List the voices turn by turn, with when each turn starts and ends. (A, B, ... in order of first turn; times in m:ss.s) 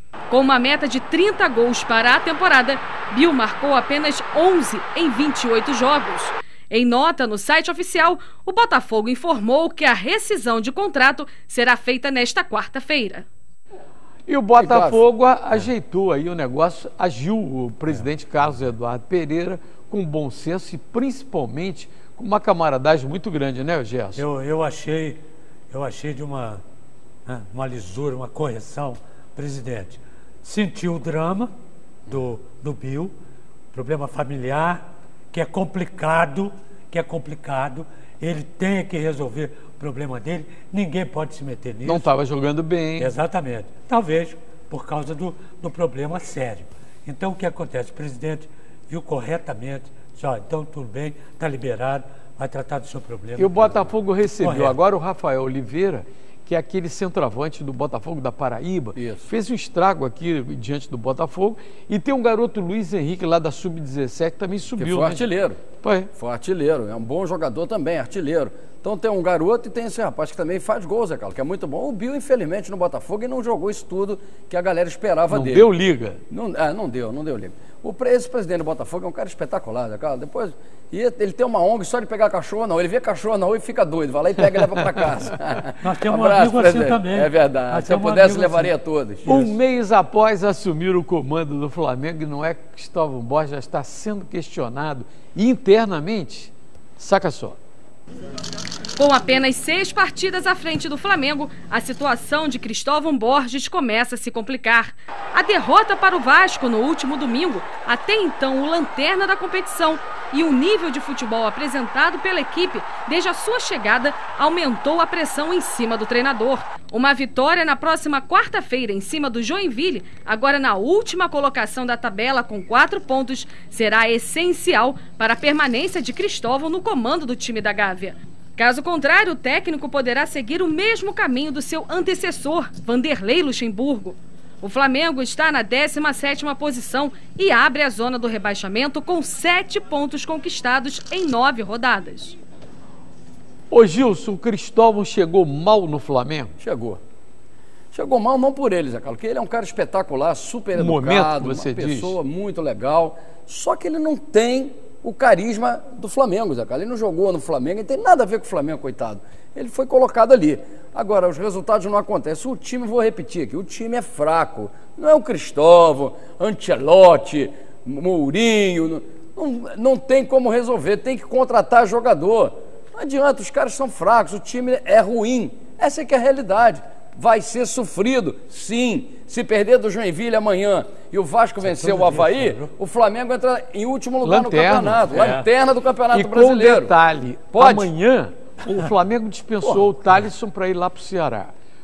0:00.3-0:13.2 A
0:14.3-0:24.2 B
0:14.6-0:15.0 C
0:24.1-0:26.6 D
0:27.3-0:31.5 D
0:32.1-0:33.1 D
0:33.7-0:42.1 D
0:41.8-0:43.1 B
0:43.0-0:53.8 D
0:53.4-1:06.1 B
0:54.4-0:54.8 D
0:59.0-0:59.3 C
1:04.8-1:05.6 C
1:06.2-1:15.7 C
1:15.3-1:16.2 B
1:16.3-1:29.3 C
1:25.8-1:28.7 D
1:29.2-1:37.6 B
1:29.3-1:29.5 D
1:39.0-2:22.4 A
2:23.7-2:26.6 B
2:26.6-2:27.0 C
2:27.9-3:06.9 C
2:30.7-2:32.2 B
3:01.6-3:02.7 D
3:04.2-3:05.4 B
3:05.1-3:05.4 D
3:06.1-3:11.5 B
3:07.5-3:07.9 C